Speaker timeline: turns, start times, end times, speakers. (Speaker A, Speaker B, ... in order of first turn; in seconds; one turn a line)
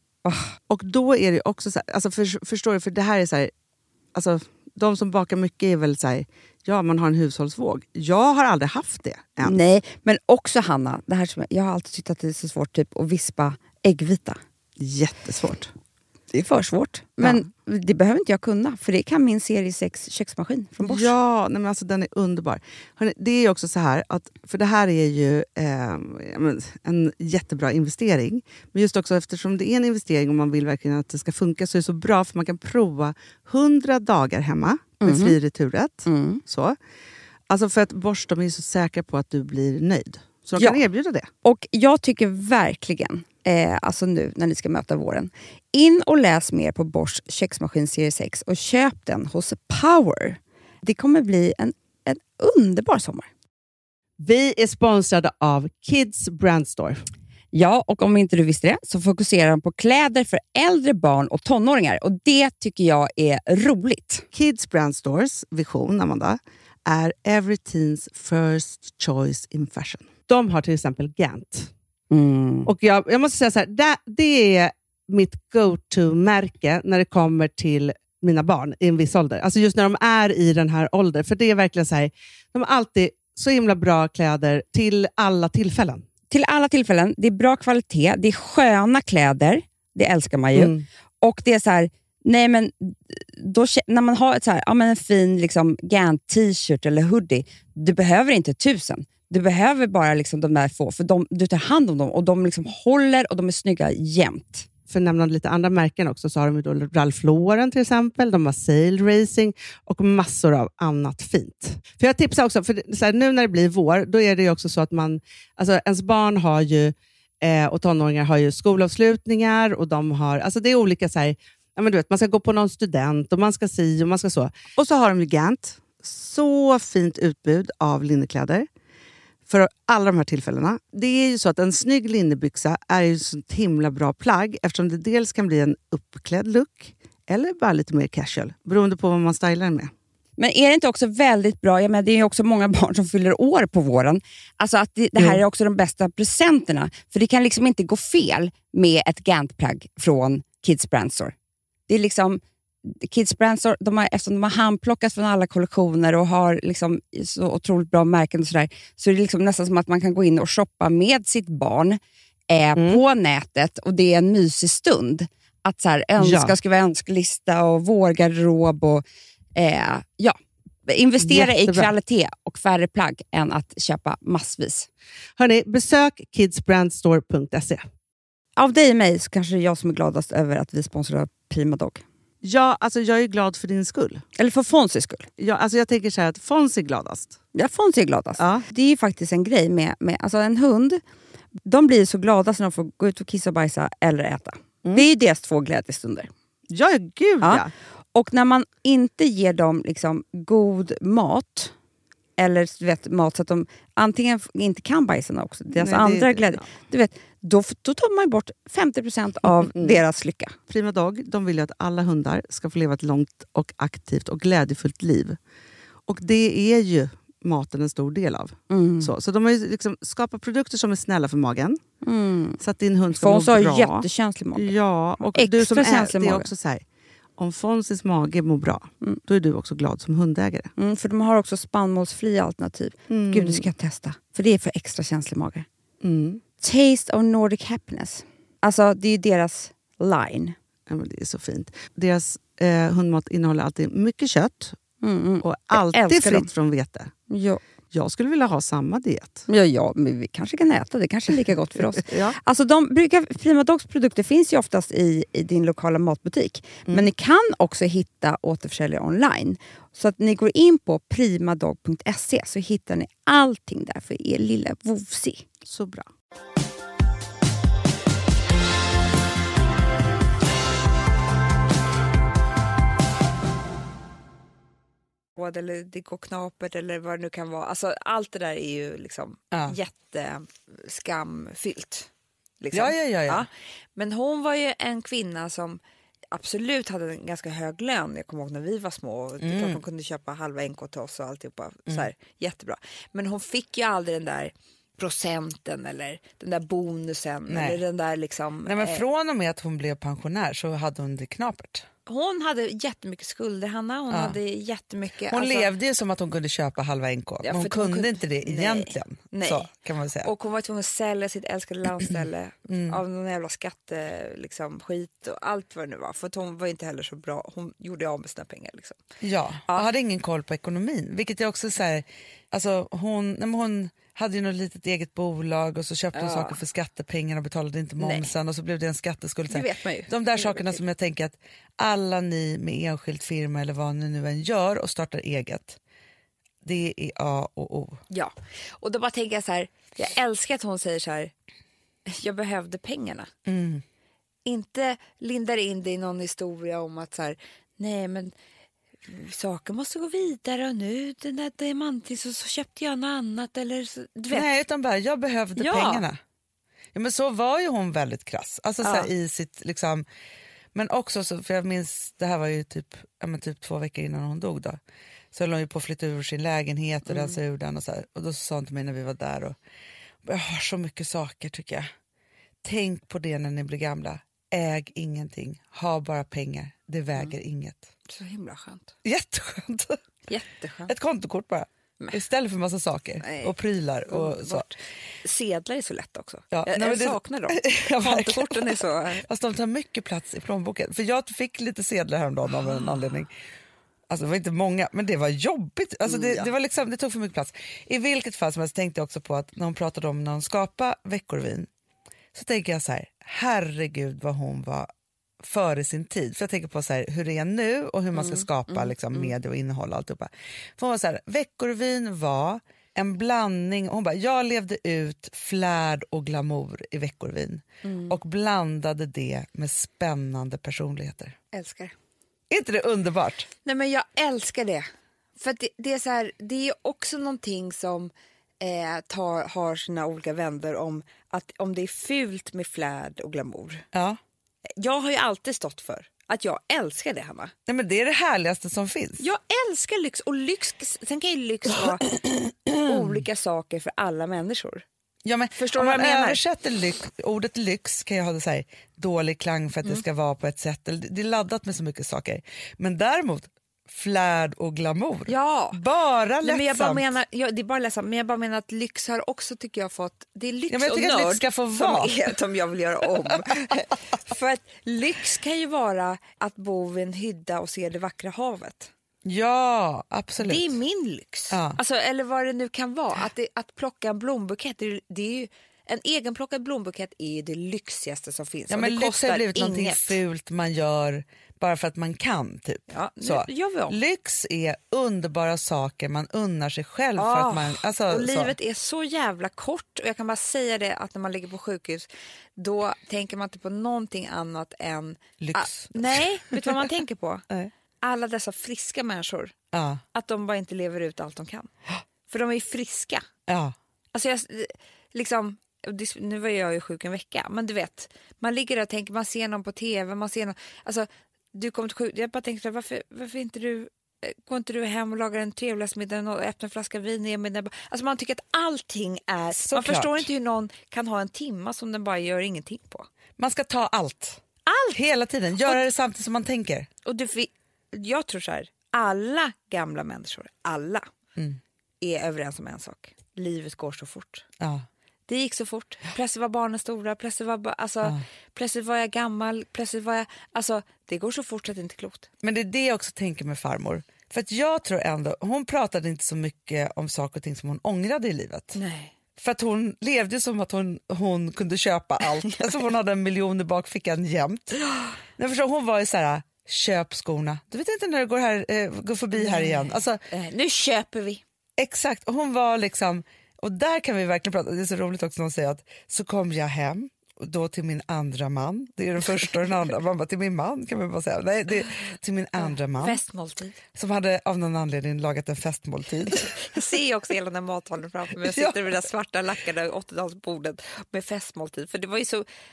Speaker A: 0.2-0.6
Speaker B: 0.7-3.5
Speaker B: 4.1-9.6
Speaker A: 9.4-14.4
Speaker B: 14.8-15.7
Speaker A: 16.3-21.1
Speaker B: 20.8-36.8
Speaker A: 35.0-35.4
Speaker A: 36.0-36.4
Speaker B: 37.5-41.3
Speaker A: 40.6-40.8
Speaker A: 41.4-53.3
Speaker B: 54.2-57.0
Speaker A: 57.5-64.3
Speaker B: 64.3-71.7
Speaker A: 72.1-72.7
Speaker B: 72.6-86.0
Speaker A: 86.3-104.7
Speaker B: 90.5-90.8
Speaker B: 104.9-128.7
Speaker B: 129.5-139.9
Speaker A: 140.4-151.3
Speaker A: 151.9-169.0
Speaker B: 162.8-163.0
Speaker B: 166.2-166.6
Speaker A: 169.6-174.9
Speaker B: 171.2-171.9
Speaker B: 175.4-177.9
Speaker A: 178.6-182.0
Speaker B: 182.4-184.2
Speaker A: 184.4-185.3
Speaker B: 185.4-187.4
Speaker A: 187.6-191.0
Speaker B: 188.4-188.7
Speaker A: 191.6-196.3
Speaker B: 196.7-197.7
Speaker A: 197.4-201.7
Speaker A: 202.4-210.6
Speaker B: 205.7-206.7
Speaker B: 209.8-210.0
Speaker B: 210.7-215.4
Speaker B: 216.1-221.8
Speaker A: 218.7-219.1
Speaker A: 222.0-222.6
Speaker B: 222.6-226.8
Speaker A: 223.1-226.5
Speaker B: 227.4-230.7
Speaker A: 230.8-235.7
Speaker B: 233.1-233.7
Speaker B: 236.0-236.4
Speaker A: 236.6-240.6
Speaker B: 240.9-244.8
Speaker A: 245.0-246.5
Speaker B: 245.4-247.1
Speaker A: 247.3-247.6
Speaker B: 247.9-249.5
Speaker A: 249.5-265.5
Speaker B: 252.1-252.4
Speaker B: 265.6-266.1
Speaker C: 275.3-299.1
Speaker D: 279.5-279.8
Speaker D: 282.7-283.4
Speaker D: 289.4-289.8
Speaker D: 297.5-297.8
Speaker D: 298.6-301.9
Speaker C: 302.1-305.7
Speaker D: 304.1-304.4
Speaker D: 305.3-310.3
Speaker C: 307.4-309.7
Speaker C: 310.2-319.0
Speaker D: 312.7-313.0
Speaker D: 319.2-335.8
Speaker C: 326.1-326.6
Speaker C: 328.0-328.3
Speaker C: 329.5-330.8
Speaker D: 336.6-338.0
Speaker C: 338.1-341.3
Speaker C: 342.1-343.3
Speaker D: 343.4-343.8
Speaker C: 344.4-348.3
Speaker C: 349.0-354.5
Speaker D: 354.3-356.2
Speaker C: 355.6-356.1
Speaker D: 356.9-360.1
Speaker C: 358.8-359.1
Speaker D: 360.7-364.8
Speaker D: 365.3-369.6
Speaker D: 370.2-371.9
Speaker D: 372.6-377.9
Speaker C: 378.1-378.9
Speaker D: 379.0-380.0
Speaker C: 380.3-380.9
Speaker D: 380.9-384.7
Speaker C: 383.2-383.6
Speaker C: 384.1-389.2
Speaker D: 386.5-393.3
Speaker C: 392.6-392.9
Speaker D: 394.1-401.7
Speaker C: 396.1-396.5
Speaker D: 402.3-404.9
Speaker D: 405.4-421.4
Speaker C: 417.8-418.1
Speaker C: 421.5-421.9
Speaker D: 422.5-423.5
Speaker C: 423.6-433.9
Speaker D: 433.9-434.2
Speaker C: 434.7-437.5
Speaker D: 437.7-439.3
Speaker C: 439.2-442.1
Speaker D: 442.7-443.0
Speaker C: 442.8-444.8
Speaker D: 445.2-457.1
Speaker C: 445.6-446.4
Speaker C: 455.3-455.8
Speaker C: 456.4-468.9
Speaker D: 460.7-462.3
Speaker D: 463.3-463.9
Speaker D: 469.2-470.8
Speaker C: 470.4-480.2
Speaker D: 471.5-471.8
Speaker D: 478.7-488.6
Speaker C: 482.9-484.0
Speaker C: 487.1-497.4
Speaker D: 495.4-496.9
Speaker C: 498.0-499.5
Speaker D: 499.7-500.0
Speaker C: 500.1-501.7
Speaker C: 502.3-503.3
Speaker D: 503.5-503.7
Speaker C: 504.1-523.1
Speaker D: 519.6-520.3
Speaker D: 523.4-524.4
Speaker C: 524.6-525.0
Speaker D: 524.9-526.9
Speaker C: 527.0-531.1
Speaker C: 532.0-534.5
Speaker D: 534.6-534.9
Speaker C: 535.3-542.3
Speaker D: 542.4-548.8
Speaker C: 548.7-549.1
Speaker D: 549.4-554.8
Speaker C: 552.5-552.8
Speaker D: 555.4-560.2
Speaker C: 559.3-561.4
Speaker D: 561.8-573.2
Speaker C: 572.6-573.8
Speaker D: 574.0-576.5
Speaker C: 576.3-582.5
Speaker D: 578.5-579.0